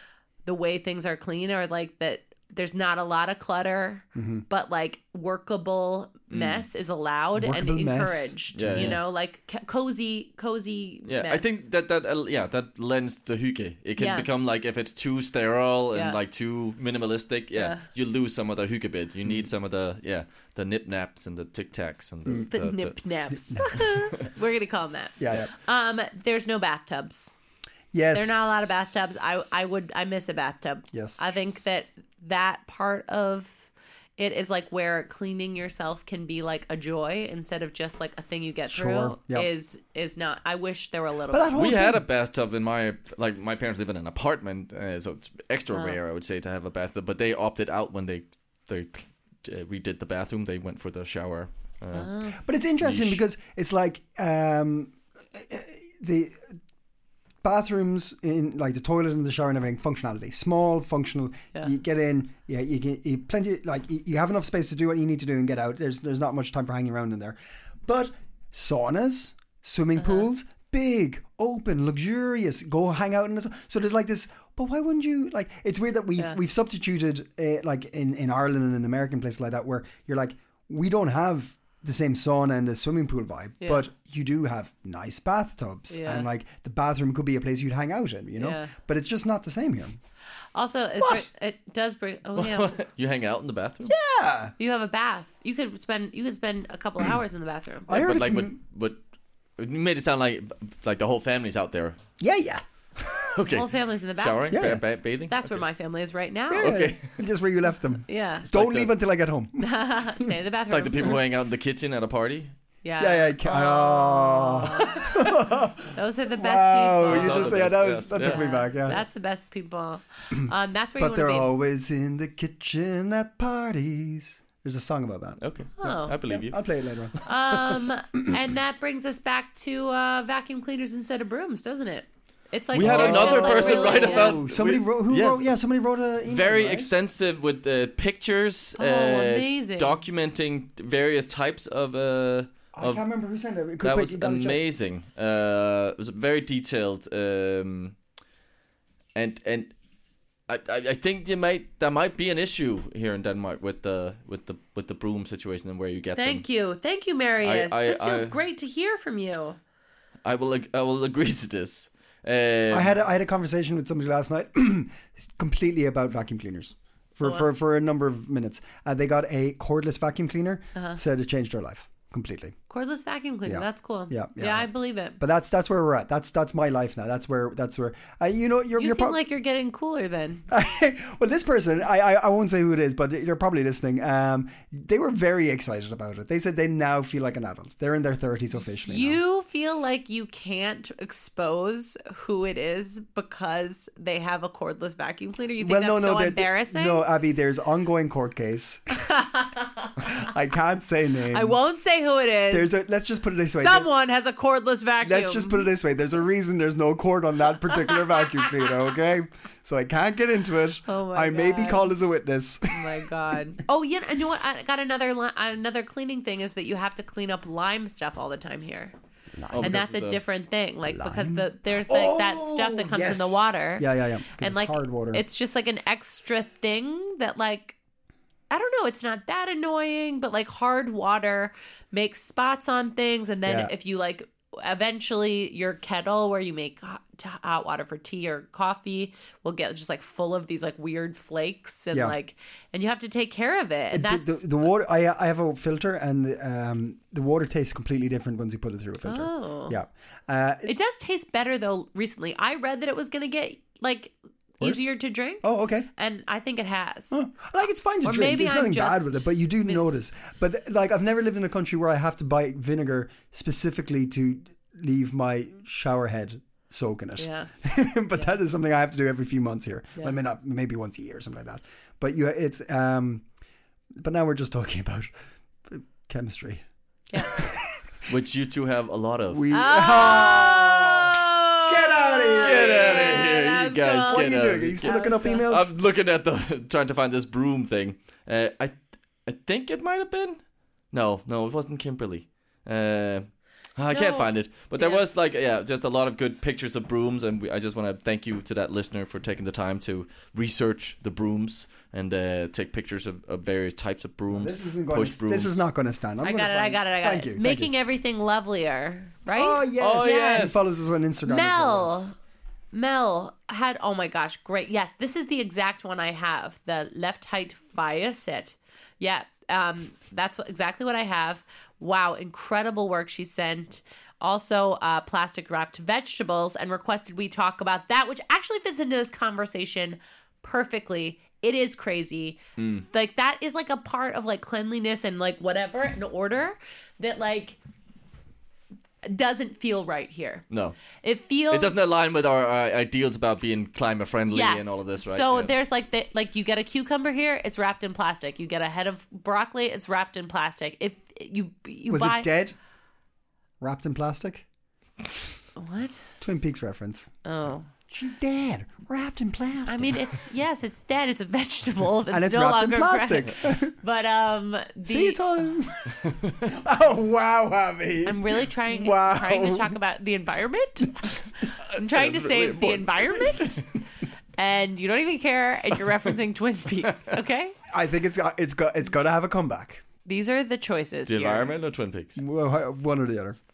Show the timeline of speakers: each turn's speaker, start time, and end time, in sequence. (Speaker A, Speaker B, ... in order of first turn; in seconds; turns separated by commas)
Speaker A: 0.4-11.6, Speaker B: 4.1-4.4, Speaker C: 6.3-6.6, Speaker B: 7.3-9.0, Speaker C: 8.5-9.0, Speaker C: 11.1-22.9, Speaker A: 14.0-14.3, Speaker A: 15.9-16.2, Speaker A: 17.5-17.8, Speaker A: 22.5-27.3, Speaker B: 23.5-24.0, Speaker B: 25.2-25.5, Speaker B: 27.9-28.6, Speaker A: 28.1-41.7, Speaker B: 30.9-31.2, Speaker B: 38.7-39.5, Speaker B: 41.3-42.0, Speaker C: 41.5-52.1, Speaker A: 51.9-52.4, Speaker B: 52.4-56.6, Speaker C: 52.8-53.2, Speaker B: 57.4-90.0, Speaker A: 70.0-70.2, Speaker A: 83.6-83.8, Speaker A: 85.9-86.3, Speaker A: 88.4-88.7, Speaker A: 90.5-92.8, Speaker B: 91.0-91.3, Speaker C: 92.4-93.9, Speaker B: 93.8-94.5, Speaker A: 94.6-98.0, Speaker B: 97.9-98.6, Speaker C: 97.9-99.0, Speaker C: 99.6-102.0, Speaker B: 102.2-103.2, Speaker C: 103.3-105.6, Speaker A: 103.5-104.6, Speaker B: 104.5-104.8, Speaker A: 105.3-106.8, Speaker B: 106.5-109.7, Speaker C: 106.6-107.1, Speaker A: 108.1-108.5, Speaker C: 108.5-108.9, Speaker A: 109.6-111.2, Speaker C: 110.7-112.5, Speaker A: 112.8-115.3, Speaker B: 113.0-119.0, Speaker A: 115.9-117.6, Speaker C: 117.1-118.9, Speaker A: 118.2-121.5, Speaker B: 121.0-127.2, Speaker C: 125.4-126.6, Speaker A: 125.8-126.2, Speaker A: 127.2-134.4, Speaker C: 132.7-135.6, Speaker B: 132.7-136.9, Speaker C: 136.3-143.0, Speaker A: 138.8-140.0, Speaker B: 142.7-144.6, Speaker C: 143.8-147.9, Speaker C: 149.1-149.7, Speaker C: 150.5-156.4, Speaker A: 156.2-159.6, Speaker C: 157.4-158.4, Speaker C: 160.2-162.9, Speaker B: 162.7-172.6, Speaker A: 172.7-175.2, Speaker B: 173.4-179.2, Speaker A: 178.8-180.4, Speaker B: 180.5-189.2, Speaker A: 188.8-197.1, Speaker B: 195.6-198.8, Speaker A: 199.1-199.9, Speaker B: 200.0-201.6, Speaker A: 201.3-202.9, Speaker B: 202.5-203.9, Speaker A: 203.5-205.7, Speaker B: 205.0-212.9, Speaker A: 210.8-211.9, Speaker A: 212.7-218.9, Speaker B: 219.3-219.8, Speaker C: 219.5-220.2, Speaker A: 219.6-227.8, Speaker B: 220.9-225.2, Speaker A: 228.5-244.4, Speaker B: 233.4-233.7, Speaker B: 243.9-250.7, Speaker A: 249.0-249.8, Speaker A: 250.6-257.2, Speaker B: 255.4-255.9, Speaker B: 257.1-273.2, Speaker A: 258.0-260.0, Speaker A: 267.2-267.5, Speaker B: 274.0-275.1, Speaker B: 275.7-276.6, Speaker A: 277.1-277.4, Speaker B: 277.3-277.8, Speaker C: 278.1-279.4, Speaker B: 279.3-281.1, Speaker A: 279.5-285.5, Speaker B: 281.7-283.3, Speaker C: 282.4-290.4, Speaker B: 284.1-285.7, Speaker C: 290.9-305.6, Speaker A: 293.9-295.0, Speaker B: 304.3-307.7, Speaker A: 306.2-310.6, Speaker B: 309.3-312.1, Speaker C: 309.8-310.7, Speaker A: 311.2-312.1, Speaker A: 312.7-332.4, Speaker C: 332.6-332.9, Speaker A: 332.9-337.6, Speaker A: 339.0-340.4, Speaker C: 340.5-340.8, Speaker A: 341.0-341.9, Speaker C: 341.5-345.5, Speaker A: 344.3-352.3, Speaker B: 351.9-352.5, Speaker B: 353.6-354.4, Speaker A: 355.6-356.0, Speaker B: 356.2-357.1, Speaker A: 357.2-357.7, Speaker B: 357.9-360.0, Speaker A: 359.6-365.2, Speaker B: 362.1-363.7, Speaker B: 364.9-369.7, Speaker C: 366.1-366.4, Speaker A: 368.0-371.2, Speaker C: 371.7-373.4, Speaker A: 371.7-373.6, Speaker A: 374.4-377.5, Speaker B: 377.7-379.8, Speaker A: 380.0-381.5, Speaker C: 381.1-382.2, Speaker B: 382.2-383.4